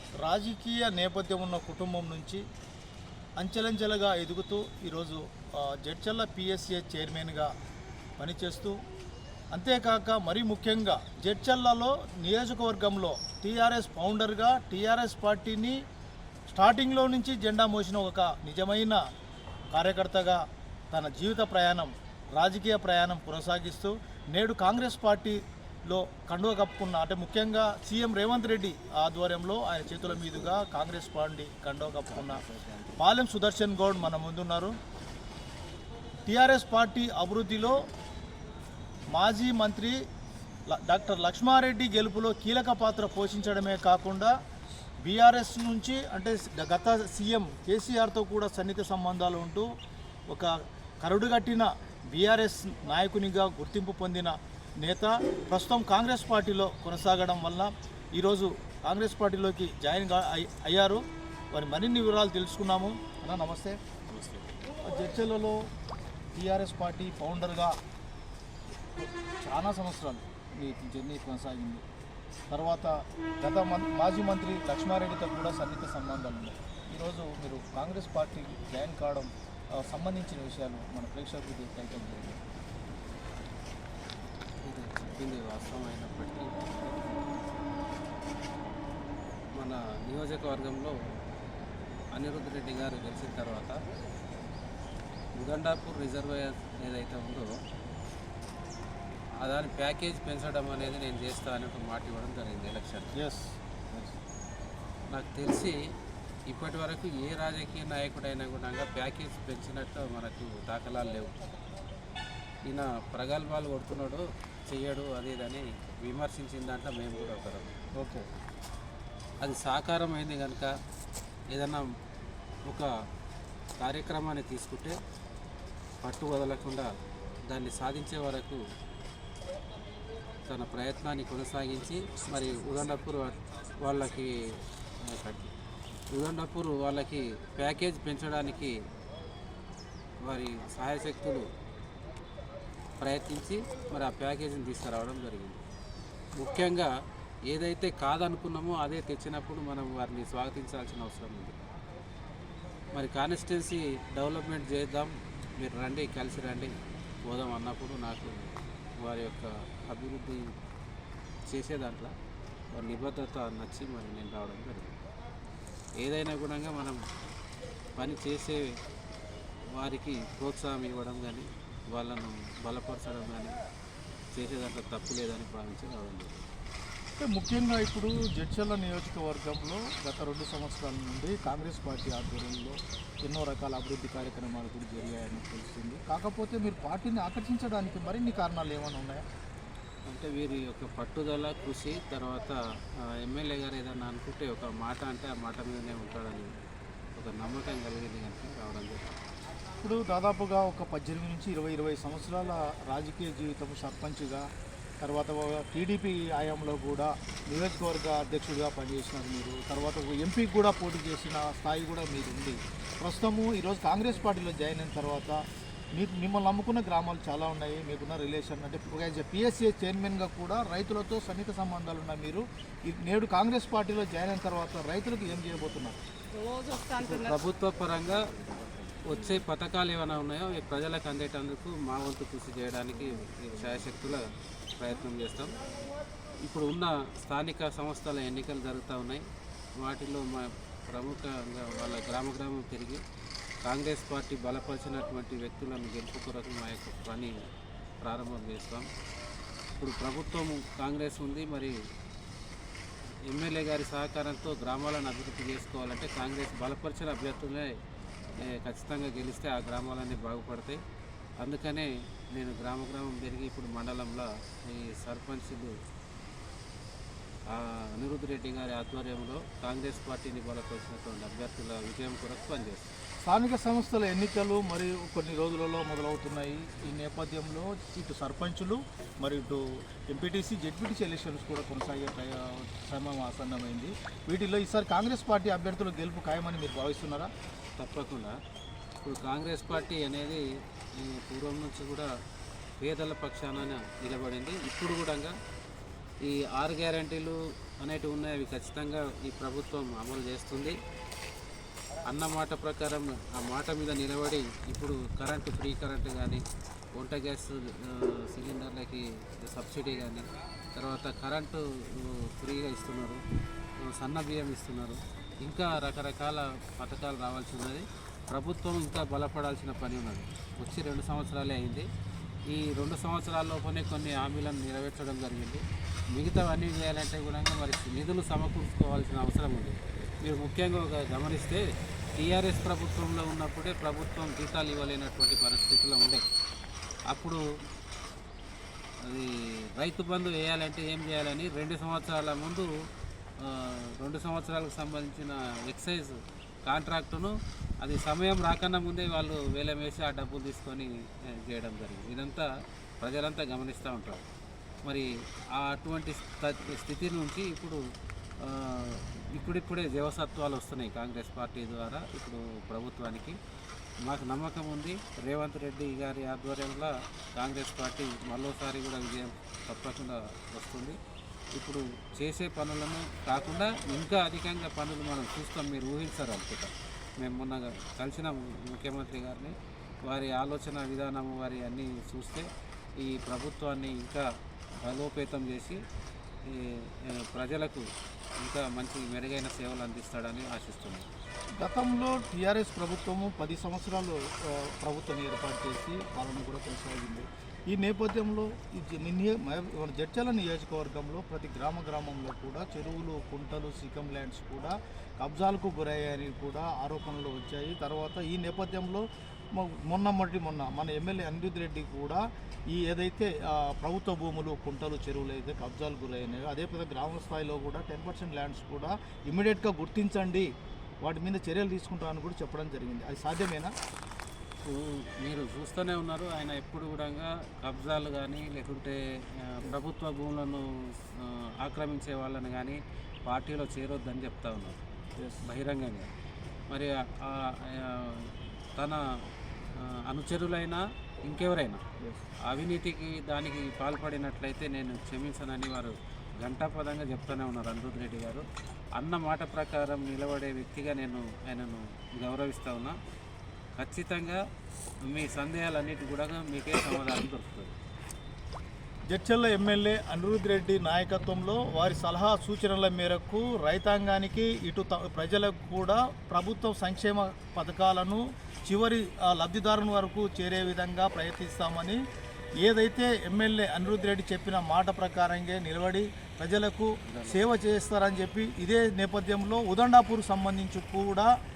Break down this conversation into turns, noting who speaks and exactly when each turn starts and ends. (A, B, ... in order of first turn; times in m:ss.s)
0:00.2-0:02.4 A
0:03.4-0:07.5 A
0:08.2-0:08.7 A
0:09.5-0:15.8 A
0:16.5-0:19.0 A
0:19.7-0:20.4 A
0:20.9-0:32.4 A
0:32.2-0:32.8 B
0:33.0-0:34.7 A
0:36.3-0:37.8 A
0:39.1-0:40.0 A
0:40.7-0:44.3 A
0:45.0-0:49.6 A
0:50.3-1:01.0 A
1:01.5-1:03.8 A
1:04.1-1:04.5 B
1:04.8-1:05.6 A
1:06.3-1:07.7 A
1:09.0-1:11.8 A
1:12.5-1:22.4 A
1:24.6-1:27.6 B
1:29.5-1:30.9 B
1:32.1-1:33.8 B
1:35.4-1:37.5 B
1:39.4-1:43.1 B
1:43.1-1:44.1 A
1:45.1-1:45.8 B
1:46.5-1:51.4 B
1:52.6-1:57.7 B
1:58.0-1:58.2 A
1:59.4-2:00.7 B
2:01.5-2:01.9 B
2:03.8-2:04.9 B
2:06.0-2:06.9 B
2:07.5-2:08.6 B
2:10.5-2:14.4 B
2:15.0-2:15.5 B
2:16.1-2:18.8 B
2:20.2-2:21.5 B
2:23.0-2:25.6 B
2:26.4-2:26.9 B
2:27.5-2:31.5 B
2:32.9-2:36.7 B
2:37.2-2:38.3 B
2:39.0-2:40.4 B
2:41.5-2:42.1 B
2:42.7-2:44.9 B
2:46.0-2:47.0 B
2:48.0-2:48.7 B
2:49.7-2:53.6 B
2:54.3-2:56.4 B
2:57.2-3:09.2 A
3:10.1-3:12.6 B
3:13.2-3:16.5 B
3:17.1-3:19.2 B
3:19.8-3:24.4 A
3:25.0-3:35.4 A
3:35.9-3:46.0 A
3:46.8-3:48.3 B
3:49.0-3:55.6 B
3:56.4-3:59.2 B
3:59.8-4:03.0 B
4:03.6-4:07.3 B
4:08.0-4:08.9 B
4:09.8-4:11.7 B
4:13.3-4:17.7 B
4:18.4-4:20.8 B
4:21.4-4:25.7 B
4:27.5-4:32.9 B
4:33.2-4:47.3 A
4:47.8-4:48.4 B
4:49.0-4:50.4 B
4:51.0-4:52.1 B
4:52.8-4:55.3 B
4:56.2-5:00.8 B
5:02.0-5:06.4 B
5:06.9-5:13.2 B
5:13.8-5:21.9 B
5:22.5-5:31.6 B
5:32.2-5:36.2 B
5:37.1-5:37.4 B
5:39.0-5:42.7 B
5:43.4-5:52.5 B
5:53.0-5:54.2 B
5:54.8-5:57.8 B
5:58.4-6:03.4 B
6:04.0-6:11.0 B
6:11.5-6:22.5 B
6:23.0-6:24.2 B
6:24.8-6:25.8 B
6:26.4-6:27.8 B
6:28.4-6:31.0 B
6:31.6-7:00.5 A
7:01.0-7:03.7 A
7:04.6-7:14.8 B
7:15.2-7:15.4 A
7:15.4-7:16.1 B
7:16.7-7:19.0 B
7:19.6-7:21.8 B
7:22.4-7:28.4 B
7:29.0-7:32.9 B
7:33.8-7:34.4 B
7:35.0-7:37.7 B
7:39.1-7:52.0 A
7:52.6-8:01.3 A
7:57.0-7:57.5 B